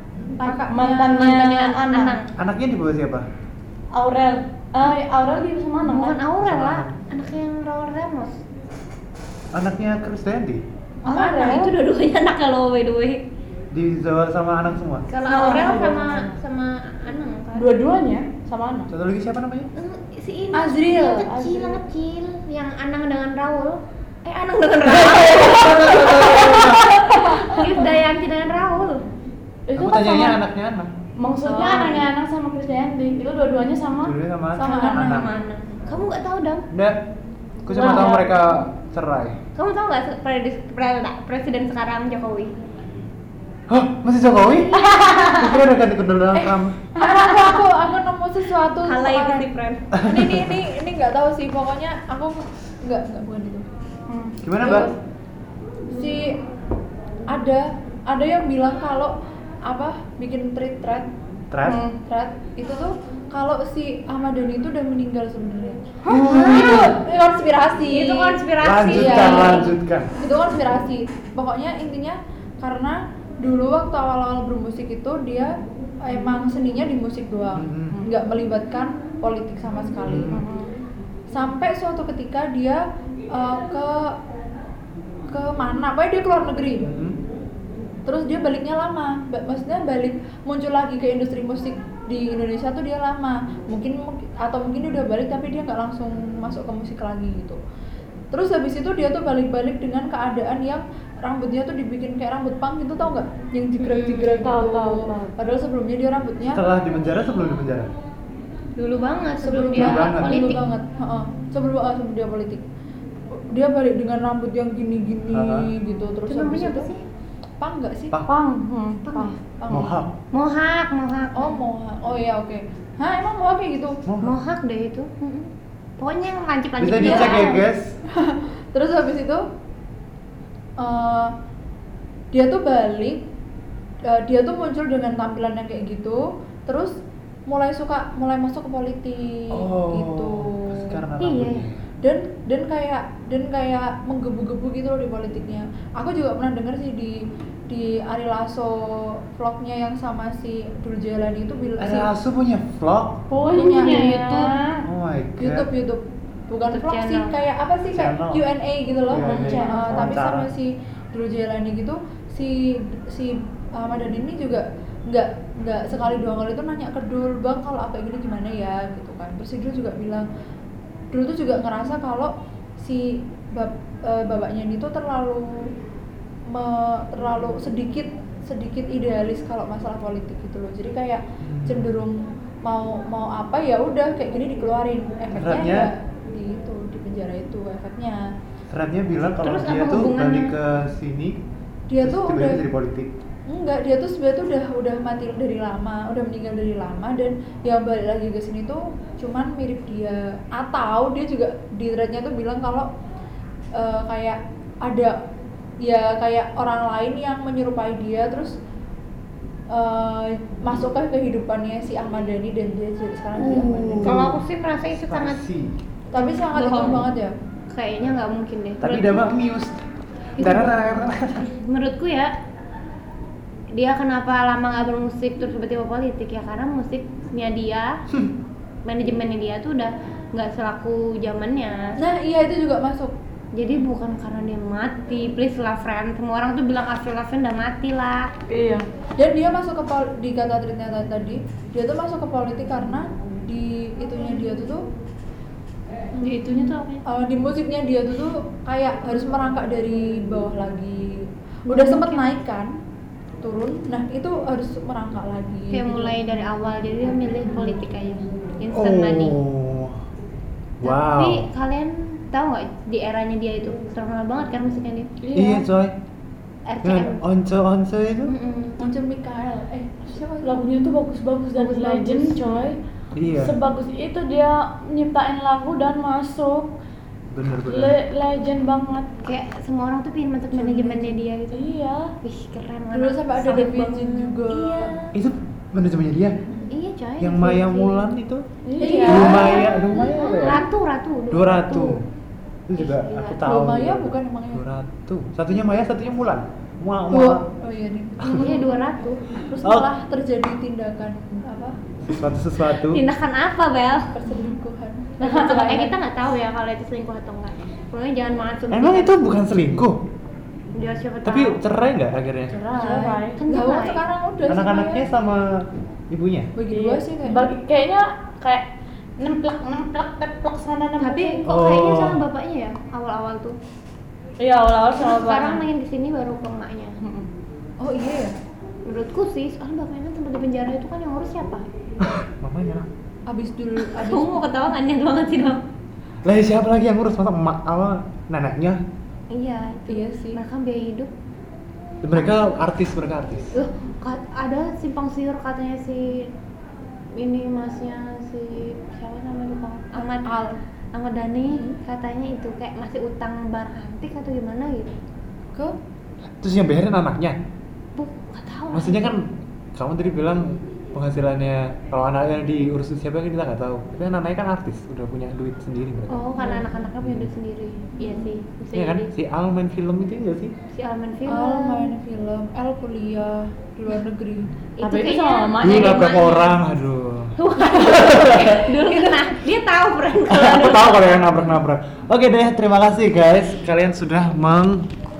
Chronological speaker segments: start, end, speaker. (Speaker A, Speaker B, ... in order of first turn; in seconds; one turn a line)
Speaker A: 0.4-1.3
Speaker B: 0.4-2.3
Speaker C: 0.7-2.2
Speaker D: 2.4-3.3
Speaker C: 3.9-6.2
Speaker B: 5.8-8.4
Speaker D: 6.4-6.9
Speaker D: 9.5-10.6
Speaker C: 11.1-11.8
Speaker B: 11.1-13.2
Speaker D: 13.7-15.1
Speaker B: 15.1-17.9
Speaker C: 15.2-16.4
Speaker C: 17.6-18.9
Speaker D: 18.9-19.7
Speaker B: 19.8-29.0
Speaker A: 20.5-21.2
Speaker C: 21.1-21.8
Speaker D: 25.1-26.9
Speaker A: 27.0-27.8
Speaker C: 29.7-30.4
Speaker D: 29.8-30.9
Speaker C: 31.2-34.1
Speaker B: 31.4-32.1
Speaker D: 34.0-35.3
Speaker A: 34.5-35.4
Speaker B: 34.6-36.7
Speaker D: 36.7-37.0
Speaker D: 37.6-39.4
Speaker C: 37.7-38.3
Speaker B: 39.5-42.5
Speaker D: 43.7-44.8
Speaker B: 44.4-45.4
Speaker C: 44.7-45.6
Speaker D: 45.3-46.8
Speaker A: 46.9-49.5
Speaker B: 47.0-47.6
Speaker B: 48.8-49.9
Speaker D: 49.9-50.6
Speaker A: 50.0-53.6
Speaker C: 54.1-54.4
Speaker D: 54.4-54.9
Speaker A: 54.6-54.9
Speaker A: 55.9-56.3
Speaker A: 57.3-59.1
Speaker A: 59.6-61.1
Speaker D: 61.5-61.8
Speaker C: 61.6-62.0
Speaker A: 62.0-75.5
Speaker D: 66.1-66.9
Speaker B: 66.2-66.9
Speaker B: 67.9-69.7
Speaker D: 68.6-70.1
Speaker A: 76.0-80.3
Speaker D: 77.5-78.0
Speaker D: 80.0-80.4
Speaker C: 80.3-80.7
Speaker A: 81.3-82.8
Speaker A: 83.3-84.1
Speaker A: 85.3-86.9
Speaker D: 86.8-87.2
Speaker A: 88.0-97.6
Speaker A: 98.3-106.6
Speaker B: 103.8-104.4
Speaker C: 104.4-105.3
Speaker D: 106.5-107.9
Speaker B: 108.8-110.7
Speaker A: 109.4-112.6
Speaker D: 109.7-110.5
Speaker A: 113.5-116.9
Speaker D: 115.3-115.7
Speaker B: 116.2-117.0
Speaker A: 117.6-118.1
Speaker C: 118.3-119.4
Speaker B: 119.0-119.4
Speaker A: 119.4-119.9
Speaker D: 119.7-120.1
Speaker B: 120.3-121.6
Speaker A: 121.3-124.0
Speaker D: 124.0-124.3
Speaker B: 124.2-127.4
Speaker D: 126.8-128.0
Speaker C: 127.0-127.6
Speaker A: 128.1-129.4
Speaker A: 130.8-131.3
Speaker A: 132.3-133.2
Speaker A: 134.1-136.9
Speaker A: 137.5-141.0
Speaker D: 139.5-141.8
Speaker B: 141.2-141.7
Speaker A: 142.0-147.2
Speaker A: 147.7-152.1
Speaker D: 151.8-153.3
Speaker C: 153.3-154.8
Speaker A: 153.5-154.6
Speaker B: 153.7-154.1
Speaker D: 154.8-155.7
Speaker A: 155.4-170.2
Speaker B: 156.7-157.3
Speaker D: 157.9-158.4
Speaker D: 159.1-160.5
Speaker C: 159.2-160.1
Speaker A: 171.1-175.7
Speaker A: 176.5-188.2
Speaker D: 181.4-181.9
Speaker D: 185.3-185.9
Speaker D: 188.7-191.4
Speaker B: 189.3-190.6
Speaker A: 191.9-192.6
Speaker D: 192.0-193.1
Speaker A: 193.5-202.9
Speaker A: 203.8-205.2
Speaker A: 205.8-208.5
Speaker A: 209.7-214.2
Speaker D: 213.4-215.8
Speaker B: 213.5-215.4
Speaker A: 216.1-217.3
Speaker B: 216.2-217.1
Speaker B: 217.7-219.2
Speaker D: 218.8-219.8
Speaker B: 220.4-220.8
Speaker D: 220.4-221.5
Speaker B: 221.4-222.3
Speaker B: 223.7-228.0
Speaker B: 228.8-232.0
Speaker A: 232.0-233.1
Speaker B: 233.5-238.3
Speaker C: 238.5-238.8
Speaker A: 239.2-244.8
Speaker B: 246.2-247.0
Speaker A: 247.1-252.7
Speaker B: 251.7-252.3
Speaker A: 253.4-256.1
Speaker B: 255.7-259.4
Speaker D: 258.7-260.0
Speaker D: 260.8-261.4
Speaker B: 260.8-265.1
Speaker C: 265.2-265.7
Speaker D: 265.3-265.9
Speaker B: 266.7-267.2
Speaker D: 266.8-268.3
Speaker B: 268.2-268.8
Speaker A: 268.8-270.6
Speaker C: 270.4-272.8
Speaker B: 271.6-272.4
Speaker D: 273.1-273.6
Speaker C: 273.4-276.7
Speaker D: 277.3-277.9
Speaker C: 277.6-279.1
Speaker B: 279.2-281.6
Speaker A: 280.5-281.2
Speaker C: 281.5-282.1
Speaker B: 282.2-285.1
Speaker A: 282.9-284.9
Speaker C: 283.4-284.1
Speaker D: 285.1-286.4
Speaker B: 286.7-288.1
Speaker D: 287.2-288.4
Speaker C: 288.6-289.4
Speaker A: 288.8-289.7
Speaker B: 288.8-292.0
Speaker D: 289.0-290.6
Speaker D: 291.3-292.0
Speaker D: 292.7-297.4
Speaker B: 292.8-293.4
Speaker A: 293.4-294.6
Speaker A: 297.1-298.7
Speaker D: 298.2-298.5
Speaker B: 298.2-299.3
Speaker A: 299.3-301.7
Speaker D: 302.1-303.0
Speaker B: 302.6-304.4
Speaker A: 304.1-305.3
Speaker B: 305.2-309.1
Speaker C: 305.2-305.9
Speaker D: 308.7-310.0
Speaker B: 310.7-311.6
Speaker D: 311.2-312.6
Speaker B: 312.5-314.0
Speaker C: 312.7-313.4
Speaker A: 313.4-315.0
Speaker D: 314.4-316.5
Speaker A: 316.6-317.5
Speaker C: 316.7-321.4
Speaker B: 321.0-323.6
Speaker D: 321.4-322.2
Speaker C: 324.4-325.6
Speaker B: 325.0-327.0
Speaker C: 327.0-327.3
Speaker A: 327.8-328.3
Speaker B: 328.8-331.6
Speaker D: 332.0-332.9
Speaker A: 333.2-334.5
Speaker B: 333.8-335.6
Speaker D: 336.2-338.8
Speaker B: 339.3-341.1
Speaker A: 339.9-340.4
Speaker D: 342.0-343.5
Speaker B: 342.1-342.5
Speaker B: 343.5-346.3
Speaker B: 347.1-350.3
Speaker A: 349.9-350.6
Speaker B: 350.9-354.9
Speaker A: 351.5-351.8
Speaker D: 356.4-357.4
Speaker B: 357.9-359.2
Speaker D: 358.7-366.3
Speaker B: 366.1-369.1
Speaker D: 367.0-367.3
Speaker D: 368.7-370.5
Speaker B: 370.7-371.9
Speaker A: 371.2-374.6
Speaker B: 374.8-376.5
Speaker C: 374.8-376.5
Speaker D: 375.6-378.7
Speaker B: 377.4-381.5
Speaker D: 380.3-384.9